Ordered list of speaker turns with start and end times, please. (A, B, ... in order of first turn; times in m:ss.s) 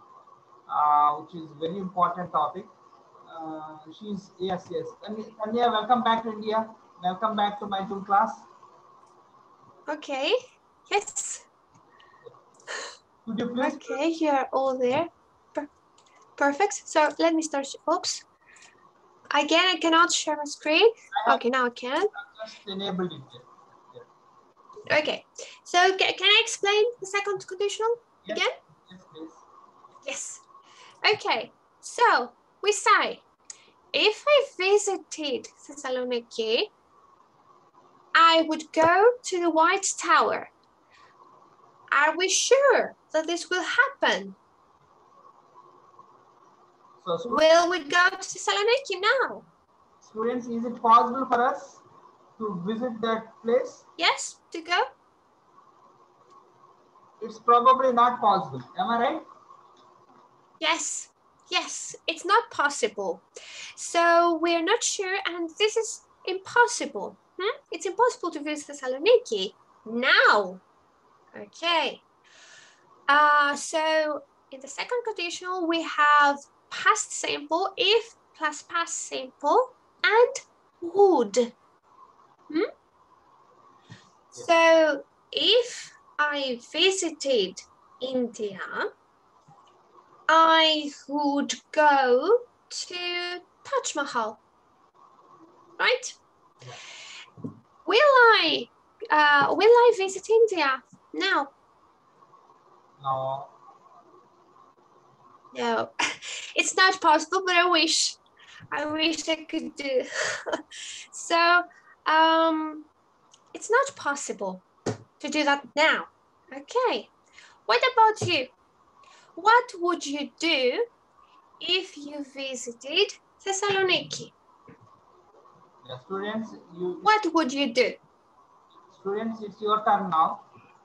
0:00.7-0:02.7 A
0:03.3-0:08.5 A
0:09.9-0:10.4 B
0:10.9-0:11.4 B
0:13.2-0:13.9 A
0:13.6-0:15.7 B
0:16.4-0:18.2 B
0:19.3-0:22.1 B
0:22.2-0:23.4 A
0:24.9-0:28.5 B
0:28.9-0:29.4 A
0:30.0-0:30.4 B
0:31.0-0:33.2 B
0:33.9-0:36.7 B
0:38.1-0:40.5 B
0:41.9-0:44.4 B
0:47.0-0:47.4 A
0:47.3-0:49.4 B
0:50.0-0:51.8 A
0:52.4-0:53.8 A
0:54.0-0:54.9 B
0:57.2-0:59.2 A
1:00.6-1:03.2 B
1:03.8-1:10.6 B
1:11.3-1:12.0 B
1:13.1-1:21.5 B
1:24.4-1:28.9 B
1:30.3-1:34.4 B
1:35.8-1:36.2 B
1:37.8-1:41.5 B
1:43.0-1:43.5 A
1:45.5-1:48.2 B
1:48.7-1:50.6 B
1:51.1-1:52.9 B
1:53.5-1:54.6 B
1:55.2-1:57.1 B
1:57.7-1:58.5 B
1:59.4-2:00.9 B
2:01.6-2:04.3 B
2:05.8-2:07.0 A
2:07.0-2:08.0 B
2:08.9-2:10.4 A